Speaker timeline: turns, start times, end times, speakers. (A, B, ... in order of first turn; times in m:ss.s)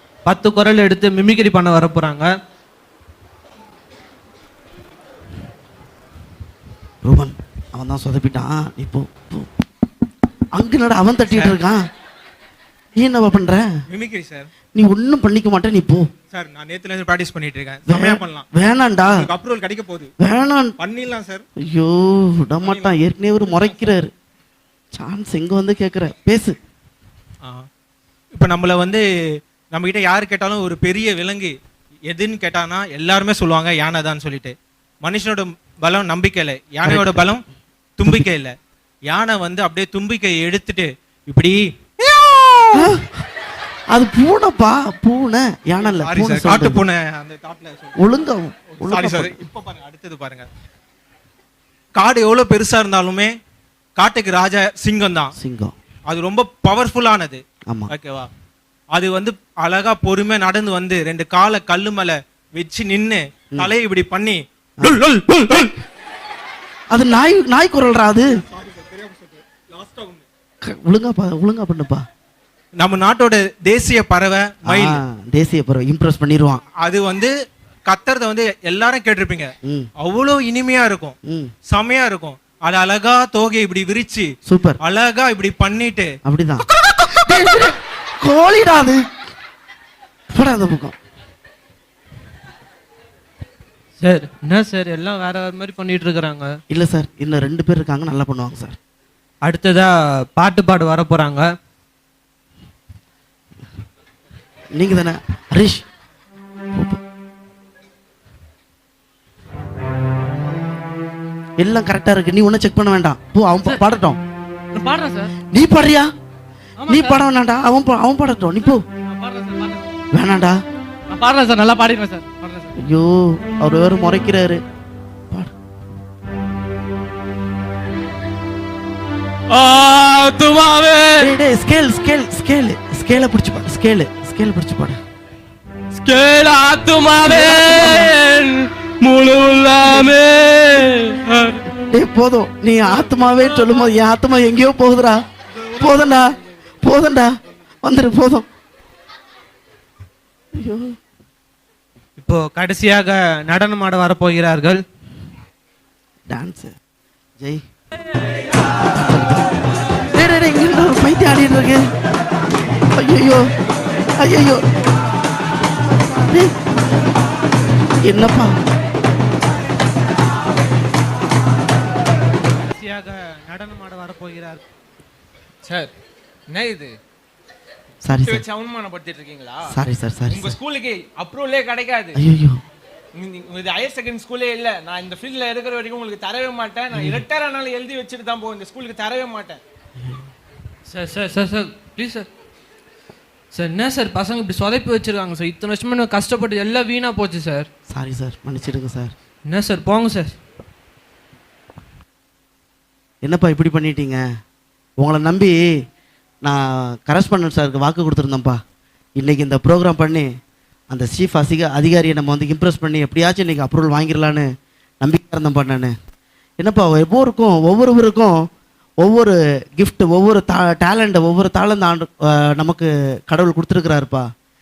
0:00.2-0:02.3 A
0:07.0-0:09.5 B
0:10.5-0:11.9 B
0:13.0-0:13.7 B
0:13.9-0:14.5 C
0:14.8-0:16.1 B
0:16.3-0:18.4 C
0:17.9-0:19.3 B
0:19.2-0:20.1 C
0:20.2-0:20.7 B
0:20.8-0:21.4 C
0:21.6-0:24.1 B
0:24.9-0:26.6 B
0:28.4-0:29.0 C
0:29.7-0:31.5 C
0:32.1-0:37.4 C
0:36.8-0:37.2 B
0:38.0-0:38.5 C
0:39.1-0:42.8 C
0:42.8-0:43.2 B
0:43.9-0:46.8 B
0:45.9-0:47.9 C
0:48.0-0:49.4 B
0:48.9-0:50.5 C
0:52.0-0:53.3 C
0:54.0-0:55.3 C
0:55.4-0:55.7 B
0:56.1-0:58.3 C
0:58.9-1:05.7 C
1:06.9-1:08.4 B
1:08.6-1:10.2 C
1:10.6-1:12.0 B
1:12.8-1:14.8 C
1:14.7-1:16.6 B
1:16.8-1:17.3 C
1:17.9-1:21.2 C
1:19.6-1:19.9 B
1:21.2-1:21.5 B
1:21.7-1:24.3 C
1:24.5-1:24.8 B
1:24.8-1:26.1 C
1:26.2-1:29.0 B
1:30.3-1:31.0 B
1:34.0-1:36.5 A
1:36.7-1:38.8 B
1:39.4-1:41.5 A
1:44.8-1:45.8 B
1:51.6-1:54.2 B
1:54.8-1:55.3 D
1:55.5-1:56.1 B
1:56.8-1:57.1 D
1:56.9-1:58.8 B
1:59.2-1:59.8 D
2:00.1-2:00.6 B
2:01.1-2:02.7 D
2:02.8-2:04.6 B
2:09.5-2:11.3 A
2:11.2-2:15.0 B
2:16.0-2:21.6 A
2:17.2-2:18.1 B
2:19.9-2:20.1 B
2:21.8-2:26.3 B
2:26.8-2:27.3 B
2:27.8-2:28.5 B
2:30.6-2:30.9 B
2:32.2-2:34.8 A
2:36.3-2:36.8 B
2:38.9-2:39.5 B
2:40.2-2:41.9 B
2:43.0-2:43.4 B
2:44.2-2:44.6 B
2:46.1-2:46.6 B
2:48.0-2:48.6 B
2:52.6-2:54.6 A
2:55.6-2:55.9 E
2:56.5-2:57.0 E
2:58.0-2:58.4 B
2:58.1-2:59.8 E
2:59.7-3:00.6 B
3:00.3-3:02.2 E
3:02.2-3:02.6 B
3:03.2-3:09.6 E
3:10.9-3:12.3 A
3:13.5-3:17.7 A
3:17.9-3:19.1 B
3:19.5-3:20.4 A
3:23.2-3:24.2 B
3:25.0-3:25.6 B
3:26.4-3:28.6 B
3:29.2-3:30.3 B
3:30.9-3:34.5 B
3:35.0-3:35.9 B
3:36.6-3:38.4 B
3:39.0-3:44.3 B